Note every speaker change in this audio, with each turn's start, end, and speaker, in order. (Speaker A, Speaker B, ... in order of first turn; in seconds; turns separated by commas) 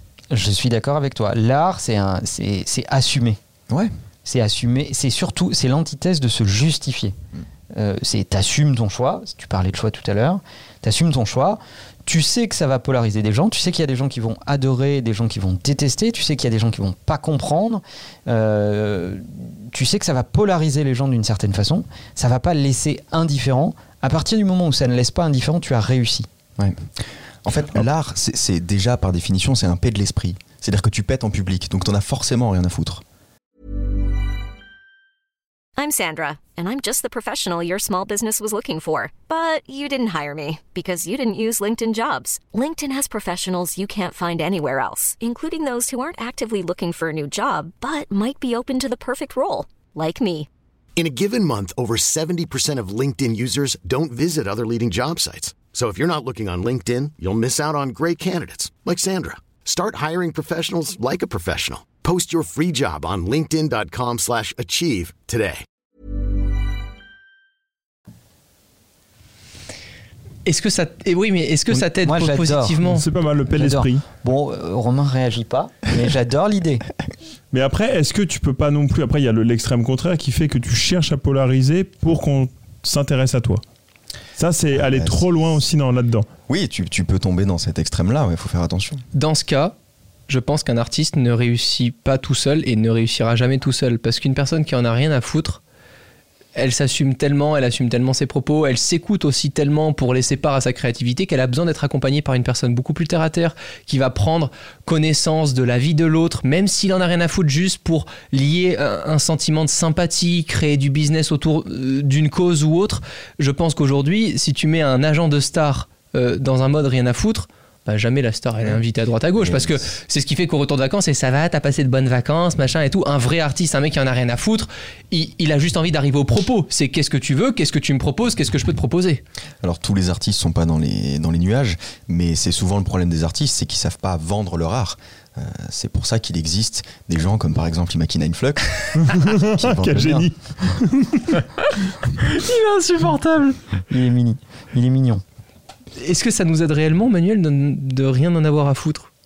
Speaker A: 0.3-3.4, Speaker A: 4.2-7.2, Speaker A: 7.7-26.3, Speaker B: 26.6-26.9, Speaker B: 27.4-33.0, Speaker C: 35.8-50.5, Speaker D: 51.0-65.6, Speaker E: 70.5-73.0, Speaker A: 71.7-72.9, Speaker F: 72.8-74.0, Speaker A: 73.5-76.8, Speaker F: 77.5-83.6, Speaker F: 84.4-86.3, Speaker B: 84.7-85.3, Speaker B: 86.5-89.0, Speaker E: 89.1-89.8, Speaker E: 90.3-95.6, Speaker E: 96.6-129.2, Speaker B: 119.4-119.8, Speaker B: 129.6-140.1, Speaker F: 139.0-141.4, Speaker A: 139.9-140.3, Speaker E: 142.2-143.6, Speaker A: 143.9-145.2, Speaker E: 146.0-149.1